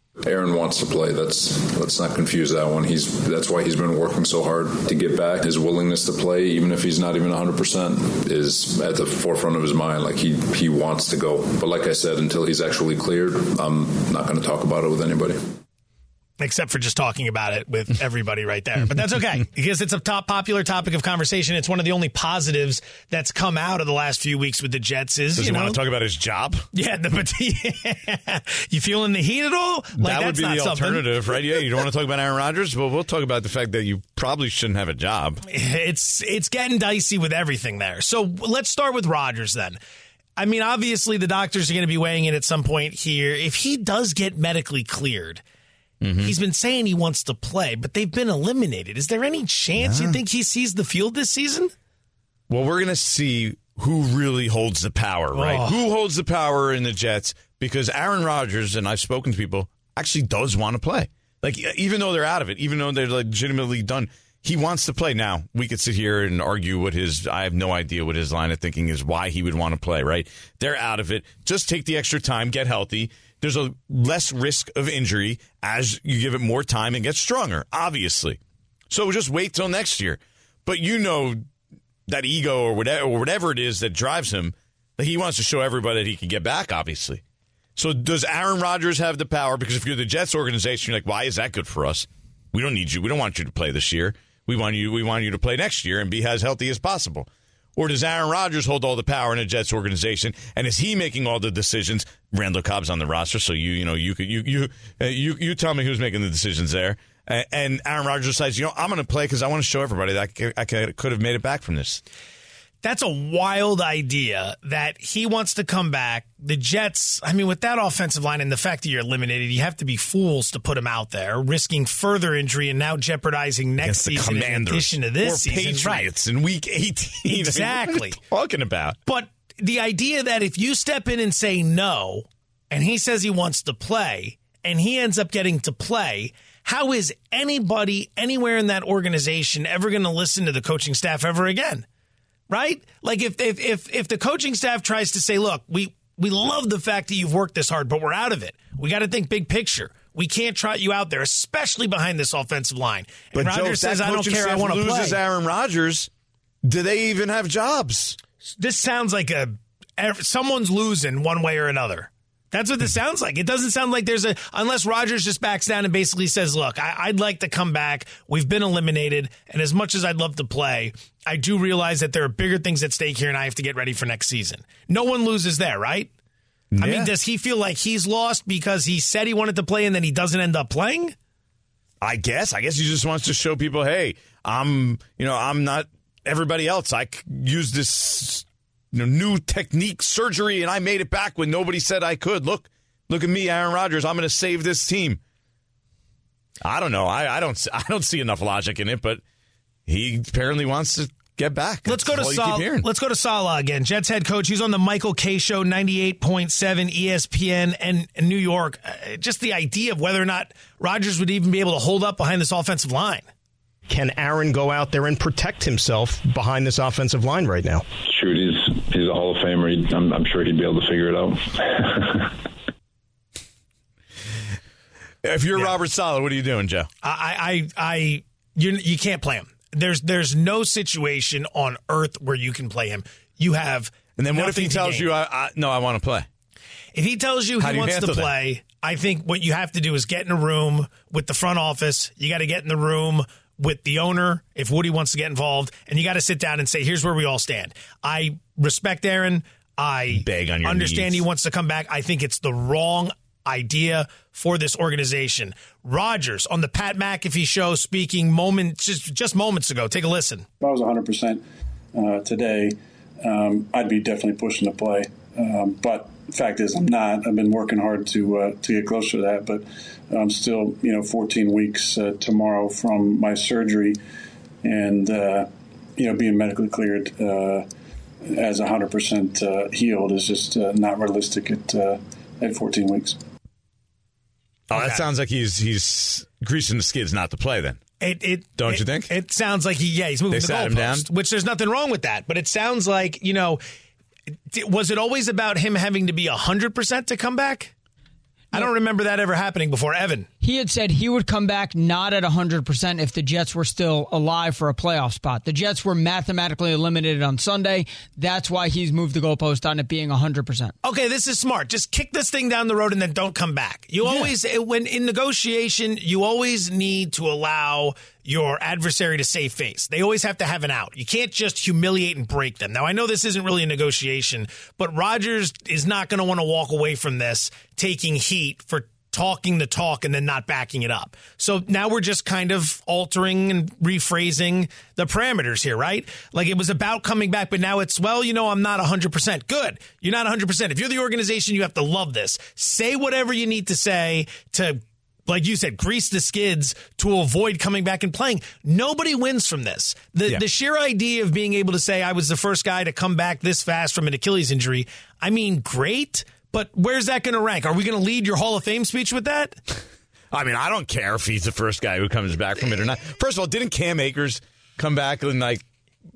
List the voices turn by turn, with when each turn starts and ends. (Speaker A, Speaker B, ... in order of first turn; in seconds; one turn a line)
Speaker A: 0.2-15.4
Speaker B: 16.4-25.8
Speaker C: 25.4-26.6
Speaker B: 26.7-31.1
Speaker C: 30.0-35.4
Speaker B: 35.5-39.8
Speaker B: 40.4-45.4
Speaker C: 46.0-46.4
Speaker B: 46.2-51.7
Speaker C: 49.8-50.2
Speaker C: 52.5-78.4
Speaker B: 55.4-55.8
Speaker C: 78.9-81.4
Speaker C: 82.1-87.2
Speaker C: 87.8-112.0
Speaker B: 112.8-126.1
Speaker C: 123.8-129.0
Speaker B: 127.2-128.2
Speaker B: 129.1-141.9
Speaker B: 142.5-155.2
Speaker C: 153.3-156.1
Speaker C: 156.6-158.2
Speaker B: 158.5-176.1
Speaker C: 176.7-177.1
Speaker B: 176.8-181.2
Speaker C: 182.0-195.2
Speaker C: 196.6-199.2
Speaker C: 199.9-202.9
Speaker B: 201.9-213.3
Speaker D: 213.9-217.9
Speaker A: 218.1-222.3
Speaker C: 225.2-226.9
Speaker B: 227.0-235.1
Speaker C: 234.2-236.3
Speaker B: 236.9-260.4
Speaker C: 237.6-238.3
Speaker C: 250.1-251.2
Speaker E: 260.6-261.4
Speaker E: 261.9-274.0
Speaker E: 274.6-277.7
Speaker E: 278.2-283.2
Speaker B: 284.7-285.0
Speaker C: 284.7-287.8
Speaker B: 288.0-293.6
Speaker C: 288.6-289.1
Speaker C: 290.3-291.1
Speaker B: 294.5-297.7
Speaker B: 298.5-300.3
Speaker F: 300.4-310.7
Speaker B: 310.8-359.6
Speaker C: 360.3-365.6